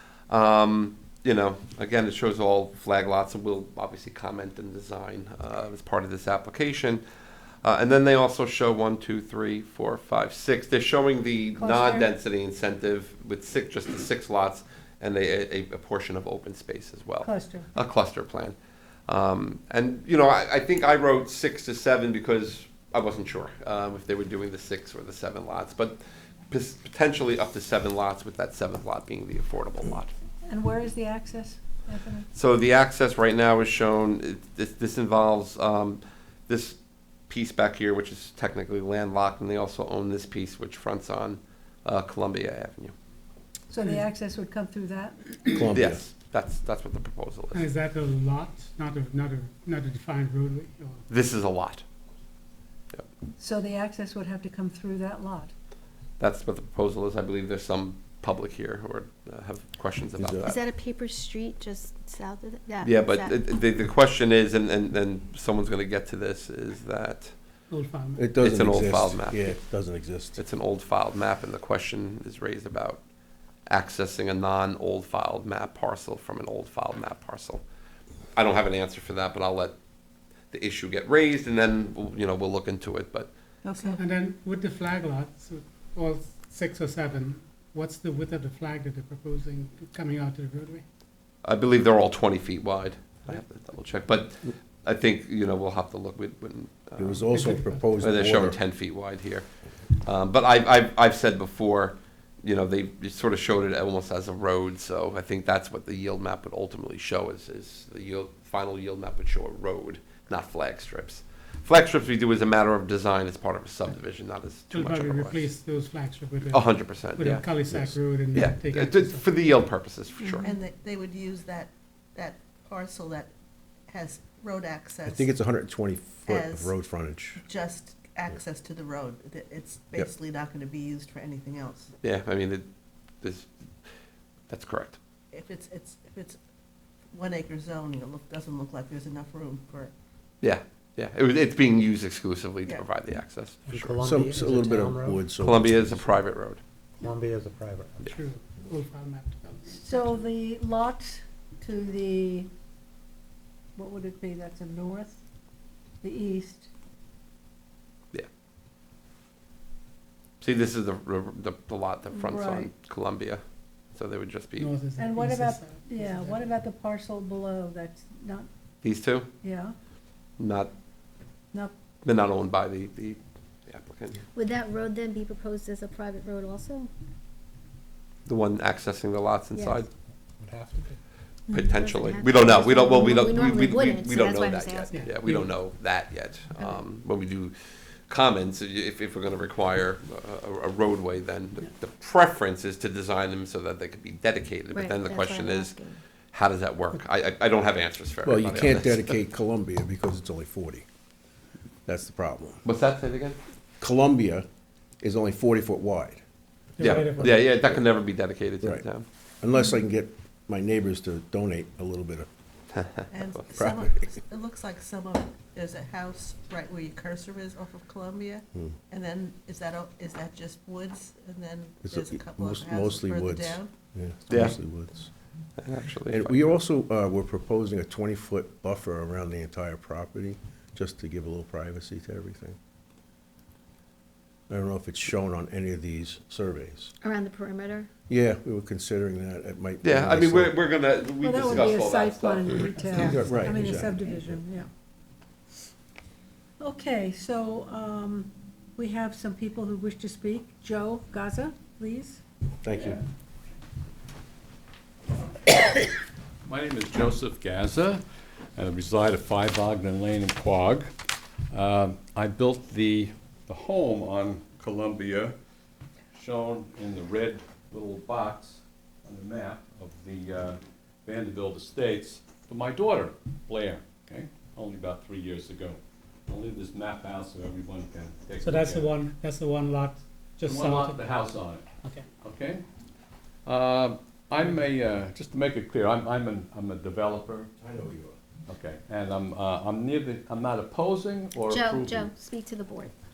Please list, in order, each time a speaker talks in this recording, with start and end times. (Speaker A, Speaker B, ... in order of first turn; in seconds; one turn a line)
Speaker A: 0.3-7.0
Speaker A: 7.6-18.6
Speaker B: 11.6-12.1
Speaker B: 17.2-17.7
Speaker A: 19.1-26.0
Speaker A: 26.5-30.1
Speaker B: 30.4-32.3
Speaker A: 32.3-42.9
Speaker B: 43.7-45.3
Speaker C: 45.5-46.0
Speaker A: 45.6-47.7
Speaker D: 47.5-51.0
Speaker A: 51.1-51.8
Speaker B: 53.4-55.5
Speaker A: 56.2-60.6
Speaker C: 60.2-60.6
Speaker E: 60.4-63.4
Speaker A: 62.8-67.3
Speaker D: 67.7-68.3
Speaker C: 68.2-70.4
Speaker A: 68.4-69.6
Speaker A: 70.4-73.0
Speaker A: 73.7-77.6
Speaker A: 78.3-79.7
Speaker A: 80.5-83.3
Speaker F: 83.6-84.0
Speaker D: 83.9-90.8
Speaker A: 91.4-97.3
Speaker C: 97.0-98.6
Speaker D: 97.3-98.0
Speaker A: 98.0-99.5
Speaker A: 100.0-115.5
Speaker D: 114.7-119.3
Speaker A: 116.5-117.6
Speaker C: 117.7-118.0
Speaker A: 118.3-120.4
Speaker E: 120.2-120.5
Speaker F: 120.4-123.3
Speaker F: 123.9-125.3
Speaker C: 125.0-127.4
Speaker F: 126.2-126.7
Speaker F: 127.4-131.9
Speaker A: 132.0-132.7
Speaker A: 133.2-133.5
Speaker A: 134.5-135.0
Speaker F: 135.3-136.4
Speaker F: 137.1-139.9
Speaker A: 140.4-144.0
Speaker G: 143.7-145.2
Speaker C: 144.0-146.1
Speaker A: 145.4-146.6
Speaker G: 147.0-148.0
Speaker D: 148.0-150.3
Speaker B: 149.8-152.5
Speaker B: 153.8-155.2
Speaker B: 156.0-156.7
Speaker A: 160.4-163.4
Speaker B: 162.1-162.7
Speaker A: 163.9-164.7
Speaker D: 164.6-166.5
Speaker B: 165.0-168.5
Speaker A: 168.8-169.3
Speaker B: 169.4-169.7
Speaker A: 170.4-170.7
Speaker A: 172.0-174.2
Speaker E: 174.3-176.9
Speaker A: 178.3-179.9
Speaker E: 179.5-179.8
Speaker E: 181.5-185.1
Speaker A: 181.5-187.5
Speaker D: 184.9-185.5
Speaker E: 186.6-186.8
Speaker A: 188.1-195.7
Speaker E: 194.7-196.0
Speaker A: 196.3-199.2
Speaker C: 198.2-200.8
Speaker C: 201.8-202.6
Speaker A: 202.6-203.4
Speaker C: 203.8-204.4
Speaker C: 205.0-206.2
Speaker D: 206.8-207.6
Speaker A: 206.8-209.0
Speaker C: 209.4-212.3
Speaker F: 213.1-223.7
Speaker C: 213.5-214.1
Speaker C: 221.8-225.1
Speaker A: 224.3-224.6
Speaker A: 225.6-226.5
Speaker C: 226.1-232.6
Speaker C: 234.5-236.9
Speaker E: 237.0-237.9
Speaker C: 238.1-240.6
Speaker A: 239.8-243.2
Speaker B: 241.2-244.7
Speaker D: 242.8-243.6
Speaker C: 243.0-244.0
Speaker B: 246.6-252.2
Speaker C: 252.6-253.0
Speaker H: 252.7-253.0
Speaker H: 256.4-258.0
Speaker H: 258.6-260.9
Speaker H: 261.5-265.3
Speaker H: 266.1-278.9
Speaker D: 278.4-281.0
Speaker H: 280.4-281.7
Speaker H: 282.2-282.6
Speaker H: 283.4-287.5
Speaker C: 287.6-288.2
Speaker H: 288.5-292.1
Speaker E: 291.5-292.9